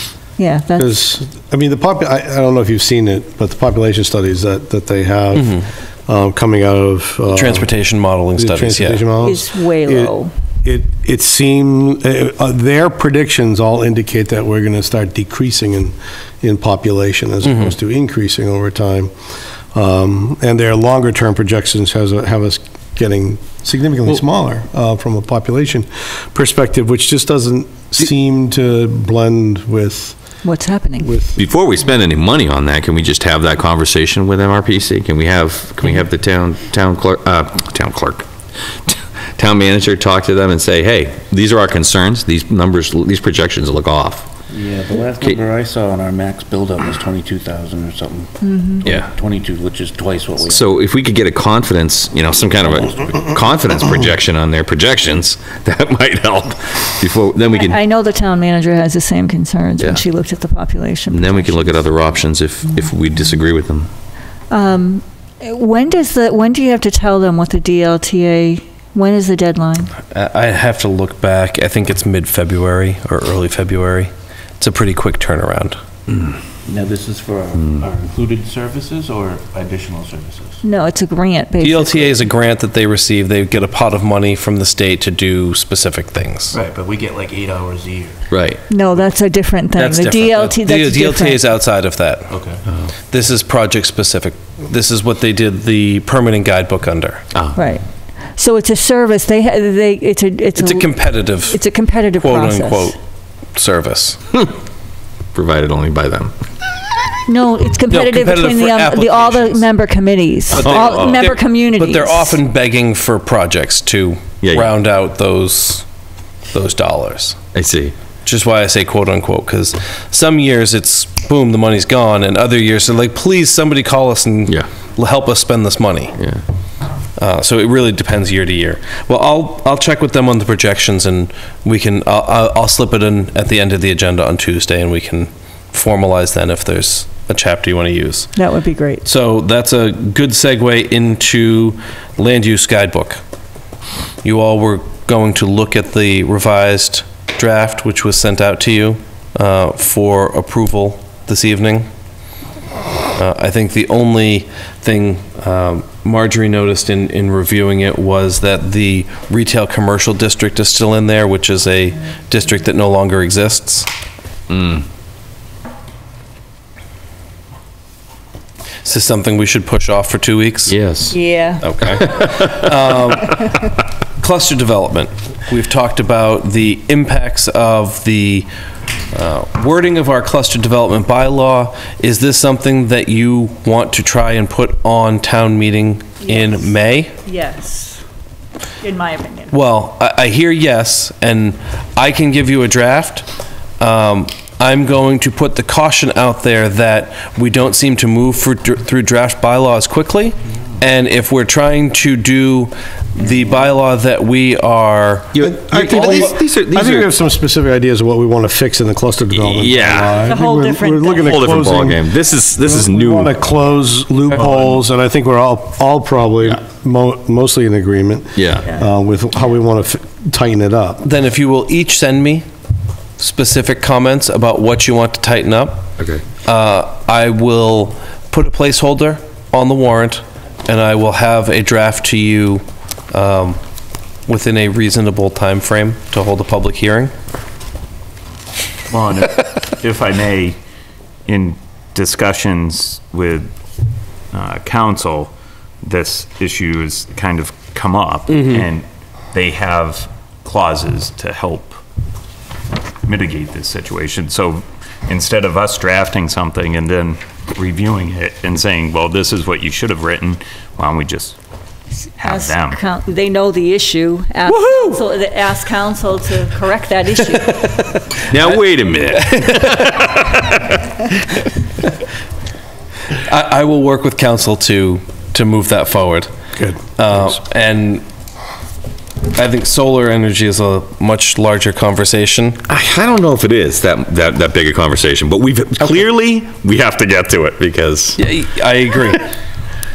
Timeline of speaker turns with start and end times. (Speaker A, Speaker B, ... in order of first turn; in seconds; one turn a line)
Speaker A: 0.4-0.9
Speaker B: 0.8-7.7
Speaker C: 7.3-9.1
Speaker B: 8.4-19.1
Speaker A: 9.2-10.3
Speaker C: 17.5-17.7
Speaker B: 19.7-30.2
Speaker A: 30.4-31.1
Speaker B: 31.0-31.4
Speaker D: 31.4-38.3
Speaker D: 38.9-44.3
Speaker E: 44.5-48.3
Speaker A: 48.4-48.9
Speaker E: 48.9-50.6
Speaker D: 50.4-57.8
Speaker A: 57.5-61.8
Speaker D: 59.8-60.0
Speaker D: 61.1-63.9
Speaker A: 64.5-69.9
Speaker C: 70.1-75.8
Speaker E: 76.8-80.5
Speaker A: 80.6-82.2
Speaker C: 81.6-86.6
Speaker E: 86.5-88.1
Speaker D: 88.3-88.6
Speaker A: 88.7-91.5
Speaker C: 89.8-92.3
Speaker C: 93.1-97.3
Speaker A: 97.6-103.0
Speaker C: 100.6-101.6
Speaker C: 102.2-103.0
Speaker C: 103.6-104.2
Speaker D: 105.3-106.3
Speaker A: 107.3-112.4
Speaker C: 107.9-109.7
Speaker C: 110.5-115.8
Speaker D: 110.6-111.3
Speaker D: 114.4-114.7
Speaker C: 116.5-117.4
Speaker D: 117.5-117.9
Speaker C: 118.2-126.2
Speaker D: 126.2-126.4
Speaker C: 127.2-138.3
Speaker A: 138.4-139.1
Speaker C: 139.1-143.2
Speaker C: 144.2-151.9
Speaker C: 153.2-163.9
Speaker D: 164.5-164.8
Speaker C: 168.8-170.8
Speaker D: 170.7-171.2
Speaker A: 171.1-171.7
Speaker C: 171.6-178.5
Speaker D: 171.8-172.7
Speaker C: 179.1-187.1
Speaker A: 186.2-186.7
Speaker A: 187.2-188.0
Speaker A: 188.8-189.6
Speaker C: 189.5-193.3
Speaker C: 193.8-205.5
Speaker D: 205.3-207.1
Speaker B: 205.4-212.1
Speaker D: 209.3-210.3
Speaker A: 210.2-211.4
Speaker D: 211.2-213.3
Speaker B: 212.6-221.0
Speaker D: 218.4-218.7
Speaker C: 221.0-222.5
Speaker C: 223.2-225.9
Speaker D: 226.0-226.2
Speaker C: 226.4-233.6
Speaker C: 234.3-237.1
Speaker F: 238.9-240.6
Speaker F: 241.3-243.5
Speaker F: 244.3-245.3
Speaker F: 245.8-251.8
Speaker F: 253.0-261.4
Speaker A: 262.2-267.7
Speaker F: 262.2-262.5
Speaker D: 268.3-270.7
Speaker C: 273.1-276.3
Speaker C: 277.0-278.0
Speaker C: 279.4-282.6
Speaker D: 282.7-288.2
Speaker C: 288.2-289.3